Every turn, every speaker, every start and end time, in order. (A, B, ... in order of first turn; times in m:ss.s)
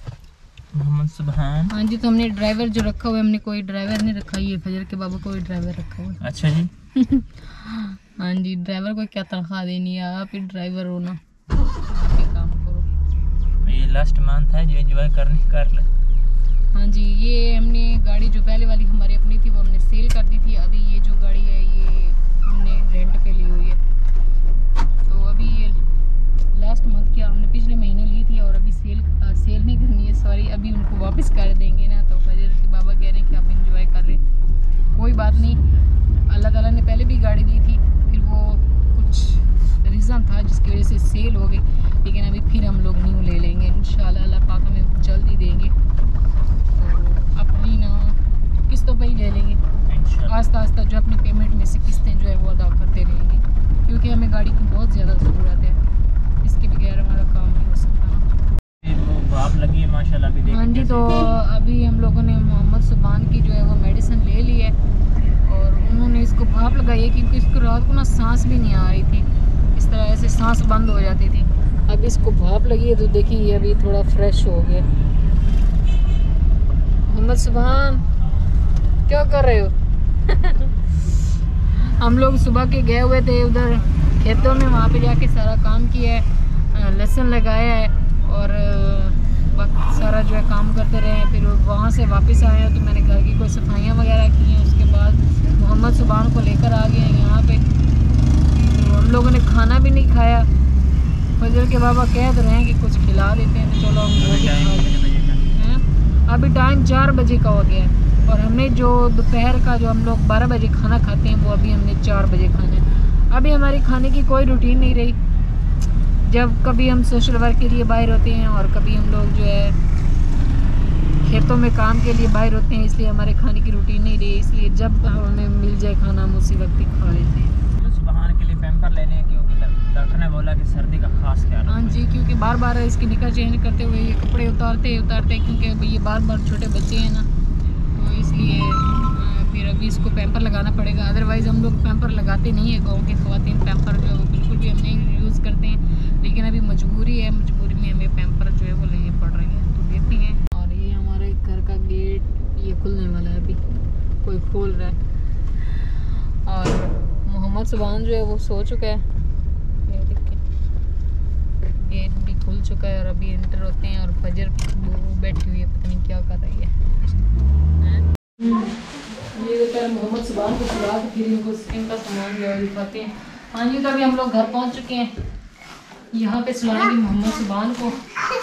0:00.7-0:01.7 A
0:01.7-0:06.2 B
0:06.2-0:06.7 A
0:07.0-0:11.2 B
0:11.8-0:12.9 B
0:13.6-0:15.9 A
0:16.7-0:23.8 B
0:25.1-0:25.8 B
0:26.5-0:34.2 B
0:34.9-0:35.6 B
0:36.3-0:45.8 B
0:46.7-0:49.6 B
0:49.9-0:50.3 A
0:50.3-0:55.8 B
0:56.4-0:58.3 B
0:58.8-1:01.4 A
1:00.5-1:04.8 B
1:05.4-1:14.9 B
1:17.1-1:18.1 B
1:19.1-1:19.7 B
1:20.3-1:20.9 B
1:21.7-1:37.6 B
1:38.6-1:40.5 B
1:41.4-1:44.9 B
1:44.1-1:45.6 A
1:45.6-1:55.2 B
1:56.2-1:59.8 B
2:01.2-2:07.6 B
2:07.8-2:12.1 A
2:11.7-2:17.3 B
2:18.0-2:33.6 B
2:34.2-2:35.0 B
2:36.4-2:39.1 B
2:39.9-2:40.4 B
2:41.6-2:46.8 B
2:47.8-2:55.1 B
2:56.1-2:58.0 B